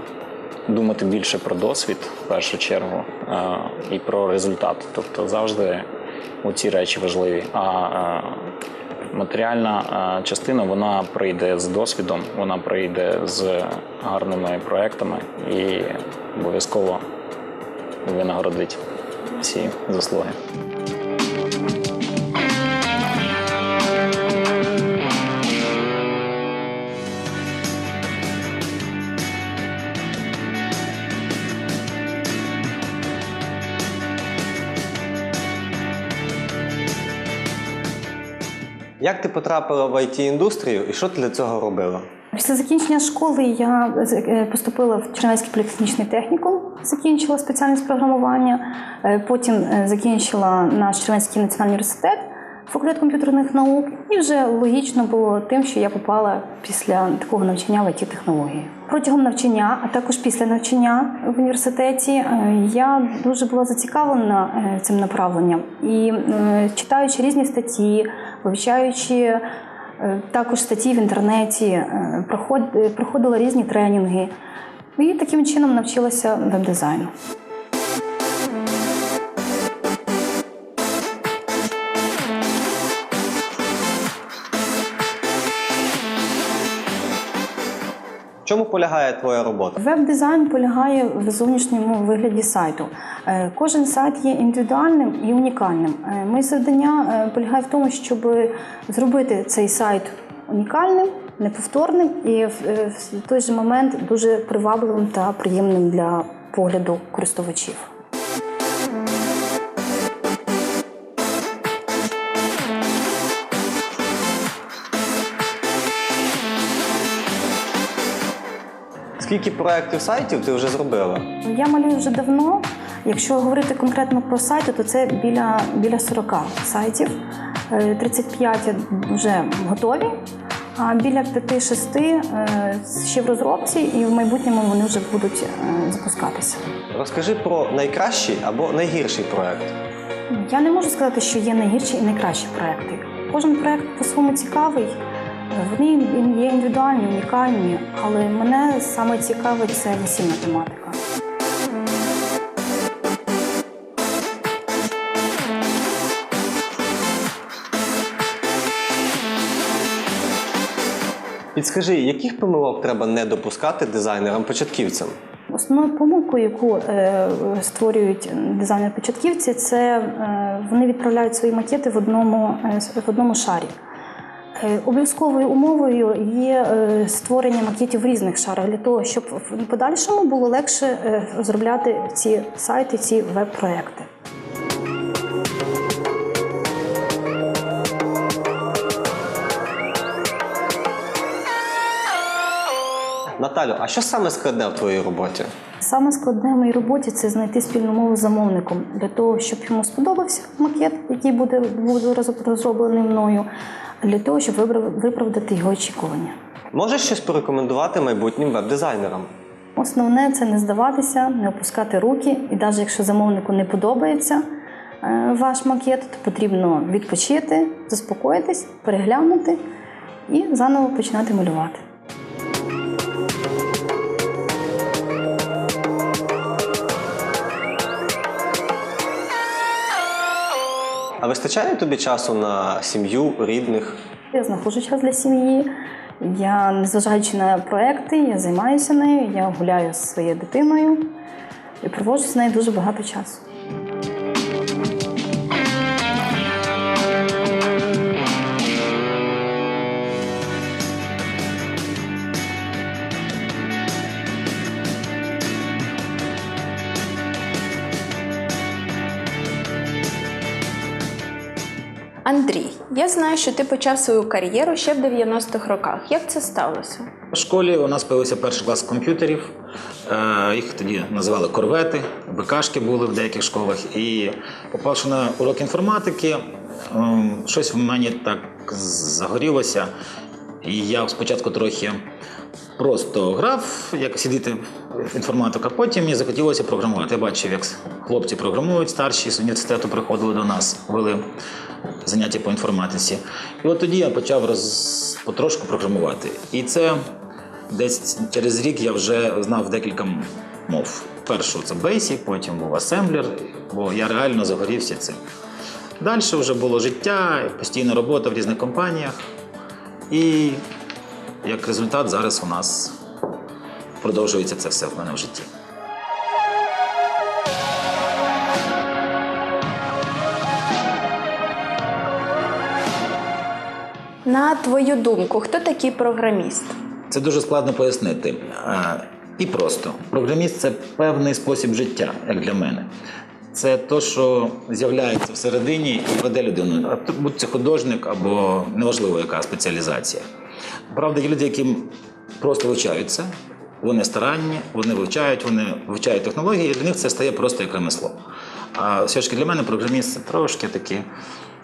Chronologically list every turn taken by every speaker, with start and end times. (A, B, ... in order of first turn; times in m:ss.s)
0:00.7-0:05.8 A
0:06.4-0:08.5 A
0:09.1-0:17.0 A
0:18.0-0:18.8 A
0:19.4-0:20.4 A
0:39.0-0:42.1 B
0:42.3-1:09.4 C
1:10.0-1:14.3 C
1:15.0-1:17.1 C
1:28.4-1:29.8 B
1:29.8-1:47.9 C
1:59.2-2:01.4 B
2:01.4-2:07.2 C
2:07.7-2:10.2 C
2:10.8-2:16.6 C
2:16.9-2:19.8 B
2:20.3-2:25.0 C
2:25.5-2:31.0 C
2:41.5-2:45.1 B
2:45.5-2:53.8 C
2:54.5-3:04.1 C
3:13.4-3:15.5 B
3:15.8-3:23.5 C
3:24.0-3:26.4 C
3:26.7-3:29.3 B
3:29.8-3:34.4 C
3:35.0-3:39.6 C
3:40.3-3:41.8 C
3:51.2-3:54.0 B
3:54.3-4:01.1 C
4:01.8-4:03.4 C
4:22.2-4:27.1 D
4:27.3-4:29.5 E
4:30.1-4:39.9 E
4:40.6-4:42.0 E
4:42.8-4:51.3 E
4:52.0-4:57.0 E
4:57.7-5:05.2 E
5:06.0-5:09.2 E
5:10.1-5:10.6 E
5:11.4-5:12.9 E
5:14.0-5:15.5 E
5:24.2-5:26.8 D
5:27.1-5:32.9 E
5:33.5-5:40.2 E
5:40.9-5:43.3 E
5:43.8-5:48.2 E
5:48.8-5:51.0 E